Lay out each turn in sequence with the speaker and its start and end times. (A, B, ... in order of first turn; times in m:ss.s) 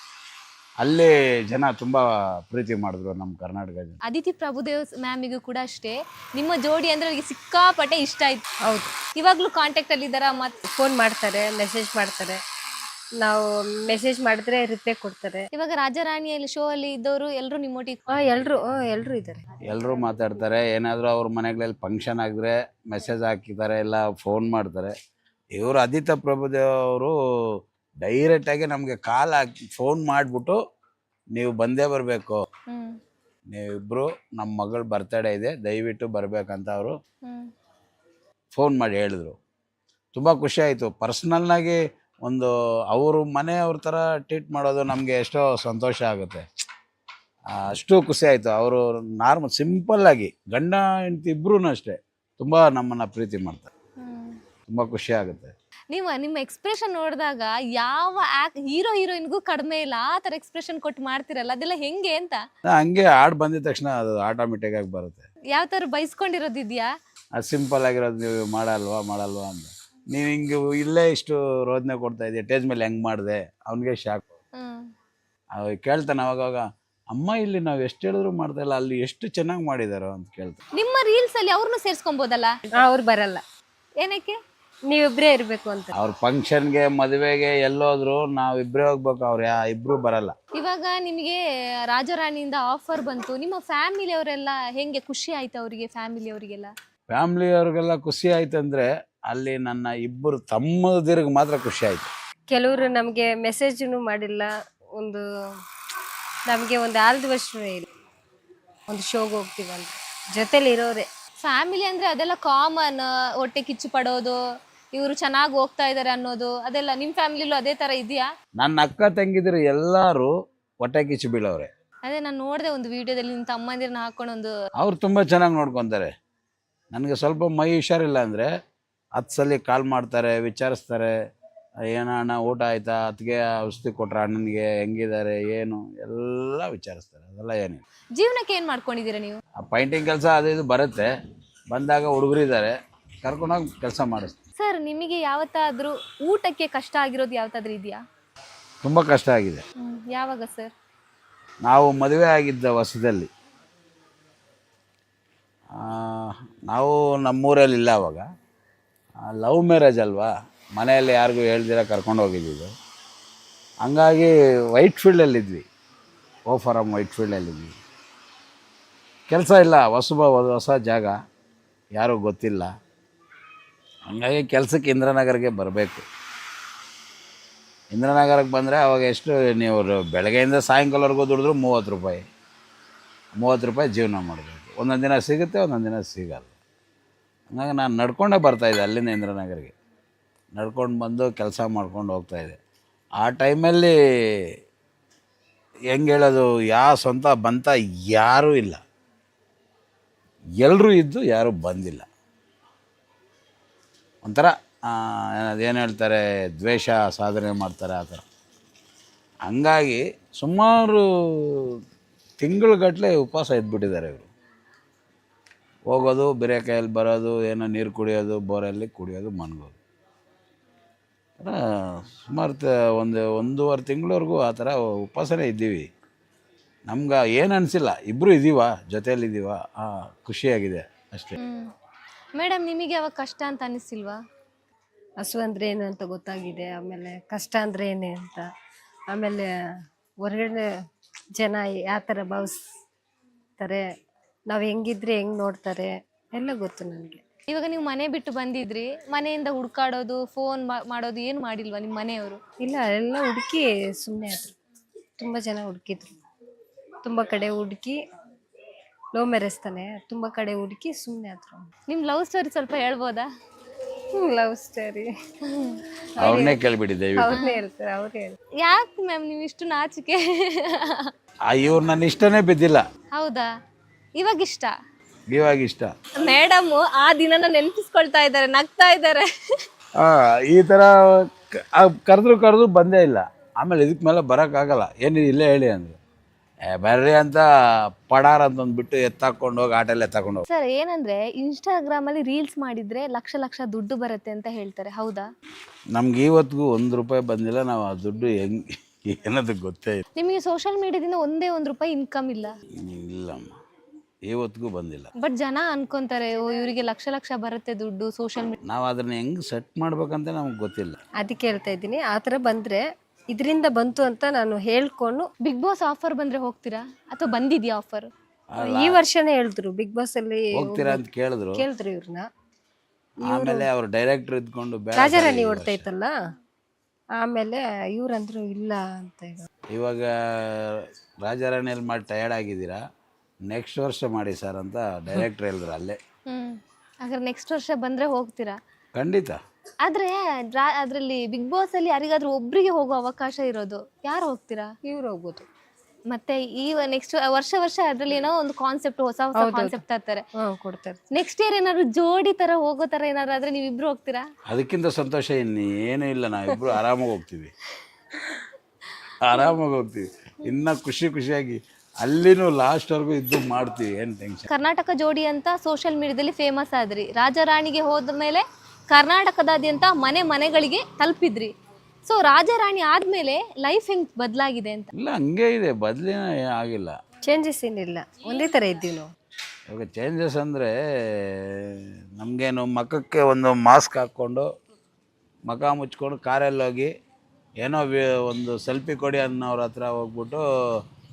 0:00.8-0:04.0 A
0:04.0-0:08.4 B
0:08.6-0:08.9 C
0:09.1-0:10.6 B
0:10.7-0:12.4 C
0:13.2-0:15.5 C
0:15.5-0:18.0 B
0:18.1-0:19.4 C
0:19.7-0:24.9 A
0:25.5-0:27.1 A
0:28.0-0:30.6 A
0:31.3-0:32.4 A
0:32.7-0:33.0 B
0:33.5-0:37.0 A
0:37.2-0:37.5 B
0:38.5-0:39.4 A
0:40.1-0:46.4 A
0:47.5-0:53.7 A
0:54.0-0:54.4 B
0:54.7-0:55.5 A
0:55.9-1:02.4 B
1:02.6-1:05.2 A
1:05.5-1:06.9 B
1:07.4-1:14.3 A
1:14.5-1:14.9 B
1:15.5-1:20.6 A
1:20.8-1:22.7 B
1:22.7-1:23.4 C
1:24.0-1:24.4 B
1:24.9-1:25.9 C
1:25.9-1:30.3 A
1:30.5-1:36.7 B
1:37.1-1:42.1 A
1:42.5-1:45.2 C
1:46.5-1:47.9 C
1:48.9-1:51.1 C
1:51.4-1:54.4 B
1:54.9-1:58.3 B
1:58.6-2:01.7 A
2:02.0-2:04.5 B
2:04.8-2:06.1 A
2:06.9-2:08.5 A
2:09.1-2:11.1 A
2:11.9-2:17.8 A
2:18.2-2:19.4 B
2:19.6-2:21.1 A
2:21.7-2:24.4 A
2:24.6-2:28.0 B
2:28.8-2:29.6 A
2:29.8-2:30.7 B
2:31.6-2:33.3 A
2:35.7-2:38.2 A
2:39.2-2:42.7 A
2:43.8-2:45.6 A
2:46.5-2:47.8 A
2:49.3-2:51.2 A
2:51.9-2:52.7 A
2:54.1-2:56.0 A
2:57.9-3:02.2 A
3:03.3-3:06.5 A
3:07.5-3:09.7 A
3:10.5-3:12.6 A
3:13.2-3:14.5 A
3:15.9-3:18.8 A
3:20.6-3:22.1 A
3:24.2-3:28.2 A
3:29.4-3:31.8 A
3:32.4-3:34.3 A
3:35.9-3:39.8 A
3:41.4-3:45.9 A
3:46.9-3:51.4 A
3:51.4-3:51.7 B
3:52.3-3:54.2 B
3:55.2-3:58.5 C
3:59.1-3:59.5 C
4:00.2-4:00.7 C
4:01.4-4:02.6 C
4:03.6-4:03.9 C
4:04.5-4:07.2 C
4:07.5-4:12.4 B
4:12.6-4:14.6 C
4:15.2-4:16.2 C
4:17.0-4:18.0 C
4:19.1-4:21.7 C
4:21.9-4:23.3 B
4:24.1-4:25.1 C
4:25.4-4:25.8 B
4:26.2-4:26.6 C
4:26.2-4:27.4 A
4:27.2-4:28.4 C
4:27.3-4:27.6 B
4:28.6-4:31.1 B
4:31.5-4:32.8 A
4:33.1-4:33.5 B
4:34.2-4:34.7 B
4:35.3-4:36.0 A
4:36.2-4:39.6 B
4:40.0-4:46.0 A
4:46.7-4:47.4 A
4:48.1-4:50.4 A
4:50.5-4:55.3 B
4:55.9-5:00.0 A
5:00.2-5:02.5 B
5:02.8-5:03.6 A
5:04.2-5:05.1 A
5:05.2-5:08.6 B
5:08.6-5:11.0 A
5:11.2-5:15.3 C
5:15.4-5:18.1 B
5:18.5-5:19.0 A
5:18.6-5:21.0 C
5:20.5-5:21.6 A
5:21.5-5:22.2 C
5:23.3-5:23.7 C
5:23.3-5:25.8 A
5:25.0-5:26.1 C
5:27.2-5:29.5 C
5:29.7-5:32.8 A
5:33.4-5:36.0 A
5:36.2-5:38.6 B
5:39.0-5:39.4 A
5:39.8-5:44.7 B
5:44.8-5:45.5 C
5:46.1-5:50.2 B
5:49.3-5:49.8 C
5:50.4-5:51.0 C
5:51.1-5:54.3 B
5:54.5-5:57.5 A
5:59.2-6:04.5 A
6:04.5-6:11.5 B
6:12.0-6:14.9 B
6:14.9-6:17.0 A
6:17.2-6:19.1 C
6:19.7-6:24.5 A
6:25.5-6:26.9 A
6:27.6-6:30.8 A